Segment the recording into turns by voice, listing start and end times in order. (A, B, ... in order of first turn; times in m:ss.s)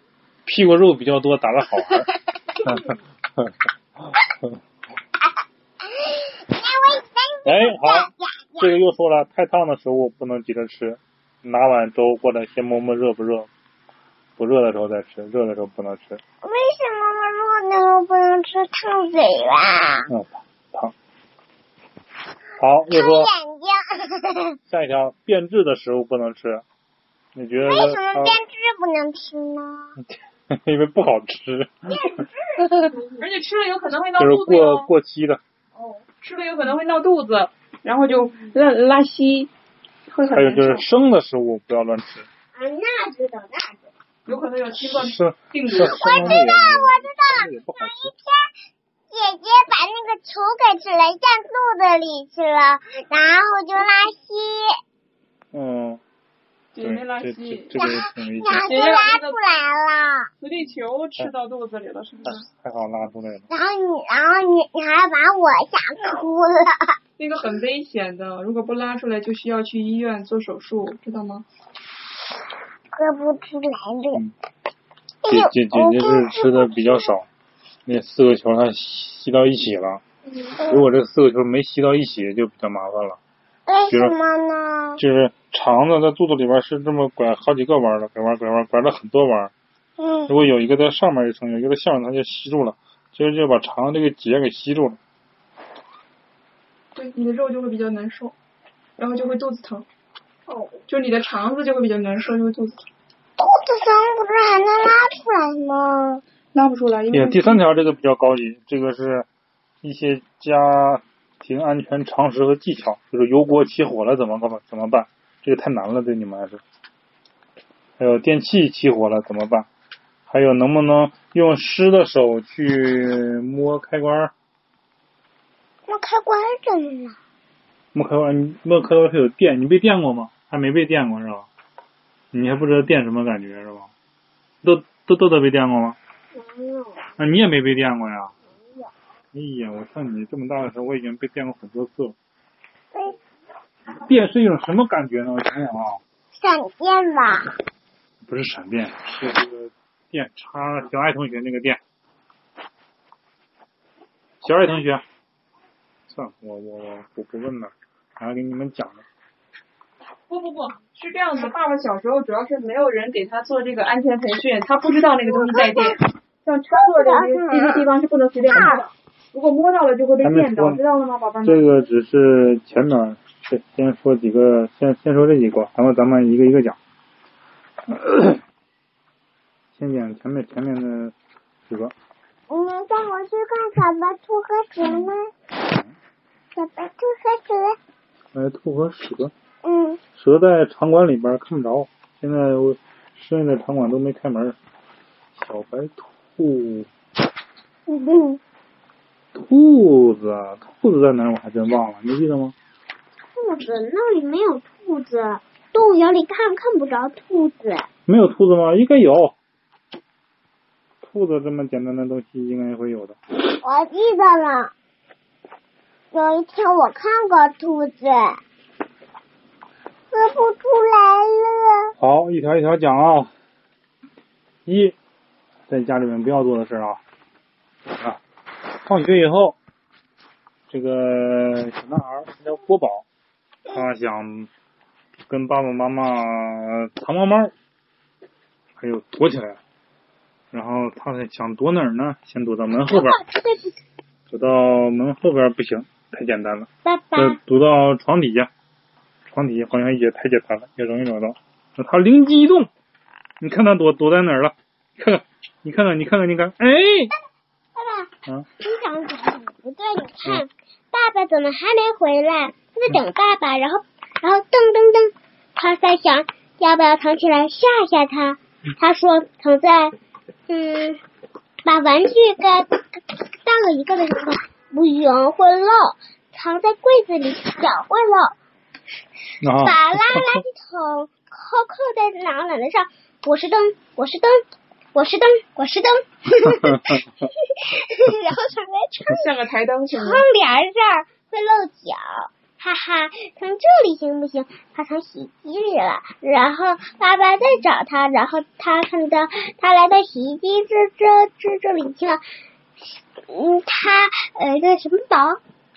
0:00.5-0:02.1 A
0:02.6-0:03.5 A
0:06.0-0:08.8 B
0:07.4-0:13.5 A
0:14.4-0:16.2 A
0:16.4-0:20.1 B
0:20.1-0:20.9 A
0:22.6-0:23.3 A
0:22.9-0:24.6 B
0:24.7-0:26.6 A
0:27.4-0:28.4 A
0:27.6-0:30.0 B
0:30.0-0:32.0 A
0:31.9-0:33.1 B
0:33.2-0:34.9 C
0:34.2-0:35.4 A
0:35.8-0:36.0 B
0:36.2-0:39.5 C
0:40.1-0:40.8 C
0:40.3-0:42.3 A
0:42.6-0:43.8 B
0:44.3-0:46.2 C
0:44.8-0:48.1 A
0:45.8-0:48.5 B
0:49.1-0:54.8 B
0:55.5-0:56.0 A
0:56.7-0:57.7 C
0:56.8-0:58.8 A
0:57.8-1:00.3 B
0:58.6-0:59.4 C
1:00.4-1:02.5 C
1:02.2-1:03.5 A
1:03.5-1:07.0 B
1:07.2-1:11.4 C
1:12.9-1:14.2 B
1:15.2-1:17.1 B
1:15.3-1:17.3 A
1:17.9-1:20.0 A
1:20.3-1:20.8 B
1:20.6-1:23.2 A
1:23.7-1:25.0 B
1:23.9-1:24.2 A
1:25.0-1:29.5 A
1:30.0-1:30.3 B
1:30.3-1:35.0 A
1:37.0-1:38.3 C
1:39.0-1:39.9 C
1:40.5-1:42.8 C
1:43.4-1:46.2 B
1:46.5-1:47.6 C
1:47.1-1:49.3 A
1:49.8-1:56.6 A
1:58.0-1:59.7 A
2:00.3-2:04.3 A
2:05.9-2:07.2 B
2:07.9-2:11.5 A
2:12.3-2:13.9 A
2:14.6-2:16.0 A
2:16.4-2:17.1 B
2:17.2-2:18.3 A
2:18.6-2:18.9 B
2:19.3-2:22.2 A
2:24.0-2:26.0 A
2:26.3-2:27.5 B
2:28.3-2:31.8 A
2:34.4-2:35.0 A
2:36.1-2:39.0 A
2:40.3-2:51.9 C
2:45.3-2:45.9 B
2:46.7-2:47.9 B
2:48.5-2:48.8 B
2:50.2-2:50.8 A
2:51.4-2:56.8 A
2:57.9-2:58.4 A
2:59.8-3:01.2 A
3:01.7-3:01.9 A
3:02.5-3:05.3 B
3:05.6-3:05.9 A
3:06.5-3:07.8 B
3:08.3-3:09.3 A
3:09.6-3:10.0 B
3:10.1-3:14.6 A
3:15.4-3:16.9 A
3:17.9-3:18.4 B
3:19.3-3:22.6 A
3:23.4-3:27.9 B
3:28.1-3:29.4 A
3:31.0-3:33.2 A
3:33.6-3:34.7 B
3:36.1-3:38.4 B
3:40.1-3:41.9 B
3:42.0-3:43.3 A
3:44.7-3:45.0 A
3:45.7-3:47.0 A
3:47.9-3:48.2 A
3:48.8-3:49.6 A
3:50.7-3:53.1 A
3:53.7-3:54.5 A
3:55.3-3:57.5 A
3:58.8-3:59.6 A
4:00.5-4:03.2 A
4:02.9-4:03.8 B
4:04.3-4:08.5 A
4:06.8-4:07.4 B
4:09.3-4:12.7 A
4:13.4-4:17.1 A
4:17.8-4:29.9 B
4:30.5-4:31.0 B
4:31.6-4:38.3 B
4:39.4-4:40.4 A
4:39.6-4:44.4 B
4:44.9-4:49.2 B
4:49.1-4:50.3 C
4:49.9-5:02.2 B
5:03.3-5:05.4 B